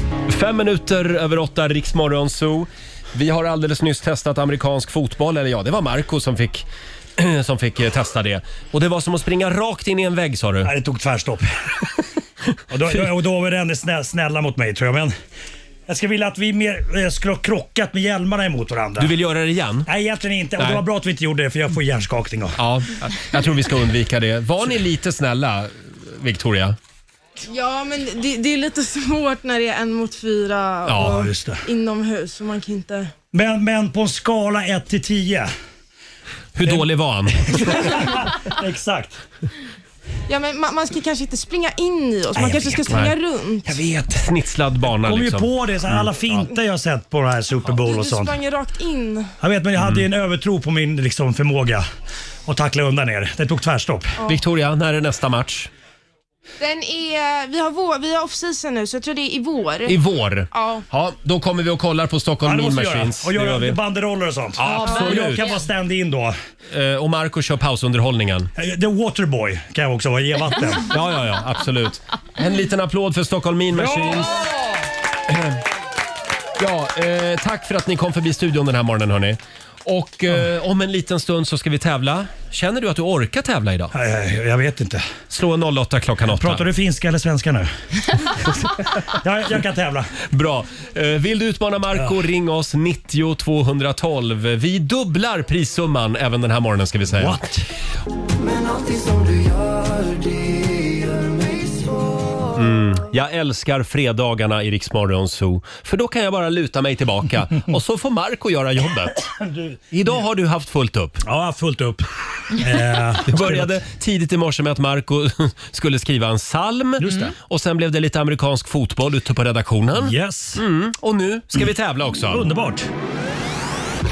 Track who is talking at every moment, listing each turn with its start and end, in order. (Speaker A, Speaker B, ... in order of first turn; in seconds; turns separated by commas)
Speaker A: 0.3-6.6, Speaker A: 7.2-10.7, Speaker B: 10.6-11.5, Speaker B: 12.7-15.1, Speaker B: 15.9-19.1, Speaker A: 19.0-19.9, Speaker B: 19.9-22.6, Speaker A: 22.6-26.8, Speaker C: 27.4-33.1, Speaker A: 30.8-31.2, Speaker B: 30.9-31.6, Speaker B: 33.3-35.5, Speaker A: 36.5-38.2, Speaker B: 36.6-36.9, Speaker B: 37.4-39.2, Speaker C: 40.3-43.8, Speaker B: 42.3-43.0, Speaker A: 42.9-43.1, Speaker B: 43.6-44.2, Speaker A: 44.1-46.5, Speaker B: 44.9-48.4, Speaker C: 47.7-49.3, Speaker B: 49.4-51.8, Speaker B: 52.5-54.2, Speaker A: 54.3-55.7, Speaker C: 56.6-60.0, Speaker A: 59.9-63.8, Speaker C: 60.5-60.8, Speaker B: 62.4-66.3, Speaker A: 64.6-65.6, Speaker A: 66.7-68.5, Speaker B: 68.6-70.9, Speaker A: 70.9-74.5, Speaker B: 73.7-74.3, Speaker A: 75.3-75.6, Speaker A: 76.6-83.9, Speaker B: 83.9-85.0, Speaker A: 85.3-86.6, Speaker B: 86.3-87.7, Speaker B: 89.1-90.1, Speaker A: 90.3-97.4, Speaker B: 91.9-92.2, Speaker B: 97.2-97.7, Speaker D: 98.3-102.6, Speaker A: 102.5-109.3, Speaker B: 109.3-109.8, Speaker A: 109.9-111.2, Speaker B: 111.2-113.8, Speaker A: 113.2-122.5, Speaker B: 117.0-117.3, Speaker B: 120.0-120.6, Speaker B: 122.3-122.9